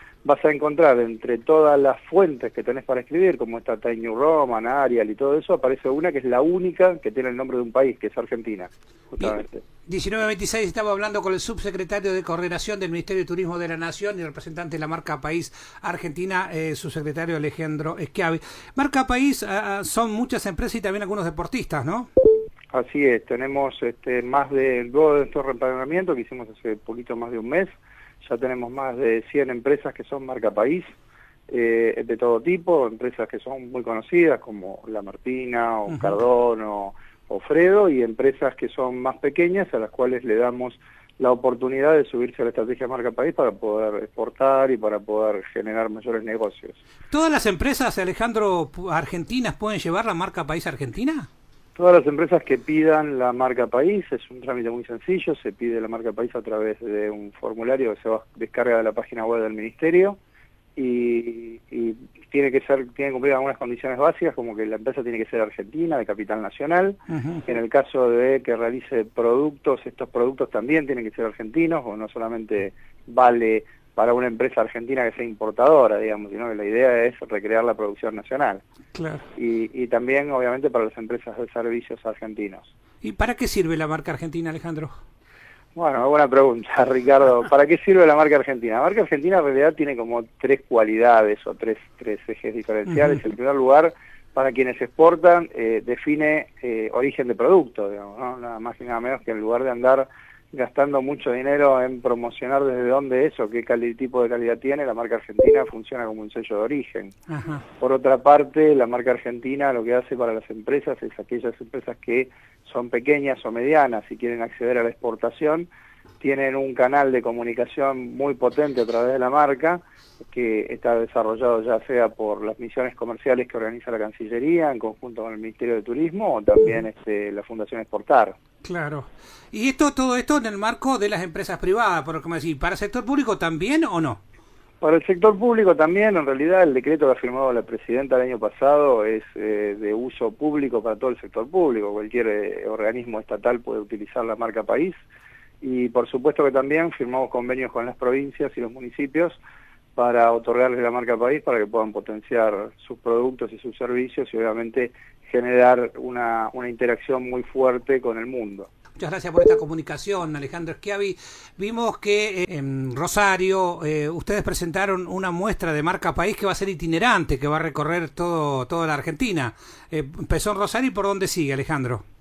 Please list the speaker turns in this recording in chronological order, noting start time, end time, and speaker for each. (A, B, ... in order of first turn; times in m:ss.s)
0:00.2-0:09.6 A
0:09.2-0:22.1 B
0:22.7-0:30.9 A
0:31.5-0:46.8 A
0:47.1-0:51.3 B
0:51.7-1:00.2 A
1:00.8-1:18.6 A
1:07.1-1:07.4 B
1:18.9-1:19.2 B
1:19.4-1:22.7 A
1:23.0-1:24.9 B
1:25.7-1:47.1 A
1:47.3-1:47.6 B
1:47.8-1:55.7 A
1:56.2-2:08.3 A
2:08.6-2:14.2 B
2:14.8-2:25.0 A
2:25.6-2:29.4 A
2:30.0-2:38.7 A
2:39.0-2:52.0 B